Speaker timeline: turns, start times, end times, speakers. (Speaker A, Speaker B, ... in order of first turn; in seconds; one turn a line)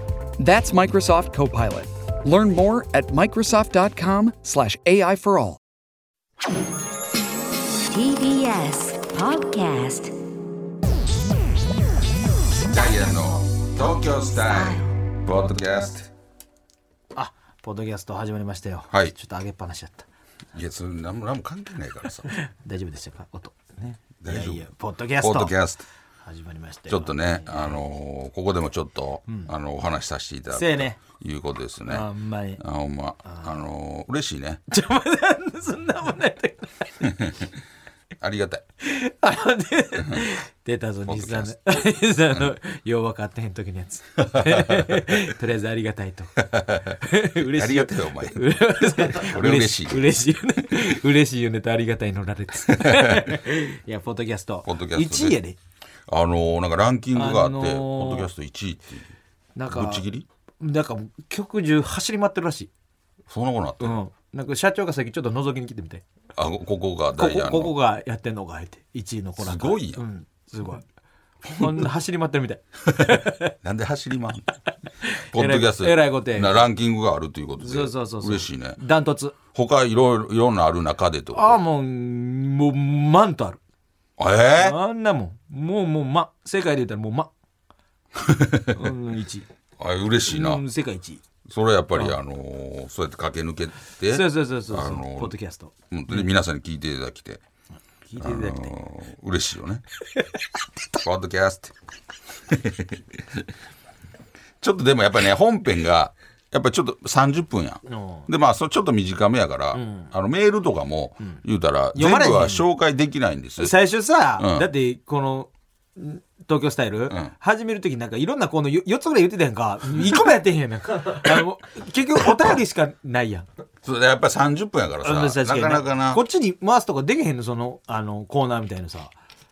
Speaker A: 0.4-5.6
Speaker B: 7.9-10.1
Speaker C: 12.6-16.1
Speaker B: 14.5-14.9
Speaker D: 17.1-20.1
Speaker C: 20.5-22.3
Speaker D: 22.3-25.6
Speaker C: 24.2-24.7
Speaker C: 25.2-25.9
Speaker D: 26.2-27.8
Speaker C: 26.9-32.1
Speaker D: 29.3-29.5
Speaker D: 30.5-31.0
Speaker D: 31.9-32.6
Speaker C: 32.6-34.6
Speaker D: 33.2-33.5
Speaker D: 34.7-37.1
Speaker C: 37.0-37.5
Speaker C: 38.2-38.6
Speaker D: 38.8-55.6
Speaker C: 41.1-41.8
Speaker C: 44.2-45.2
Speaker C: 46.4-50.0
Speaker C: 52.7-53.4
Speaker C: 54.6-55.4
Speaker C: 56.1-59.1
Speaker D: 57.1-58.3
Speaker D: 59.6-60.1
Speaker C: 59.7-60.3
Speaker D: 60.6-62.7
Speaker C: 63.3-64.0
Speaker D: 63.8-66.0
Speaker C: 66.3-67.8
Speaker D: 67.2-70.8
Speaker C: 69.4-70.0
Speaker D: 71.5-73.5
Speaker C: 73.0-74.5
Speaker D: 75.0-76.6
Speaker C: 75.3-78.8
Speaker D: 77.6-79.4
Speaker C: 79.5-81.6
Speaker D: 81.3-83.6
Speaker C: 84.2-84.8
Speaker D: 84.6-87.3
Speaker C: 88.2-88.9
Speaker D: 88.7-89.5
Speaker C: 89.8-90.6
Speaker D: 90.3-91.2
Speaker C: 91.5-95.3
Speaker D: 94.1-96.3
Speaker C: 95.9-97.4
Speaker D: 98.0-98.7
Speaker C: 98.2-99.8
Speaker C: 100.9-101.7
Speaker C: 102.5-103.5
Speaker C: 104.6-113.8
Speaker D: 107.9-108.3
Speaker D: 109.7-110.1
Speaker D: 111.9-112.7
Speaker D: 113.6-123.5
Speaker C: 114.4-114.7
Speaker C: 122.3-122.6
Speaker C: 123.8-126.2
Speaker D: 125.0-129.1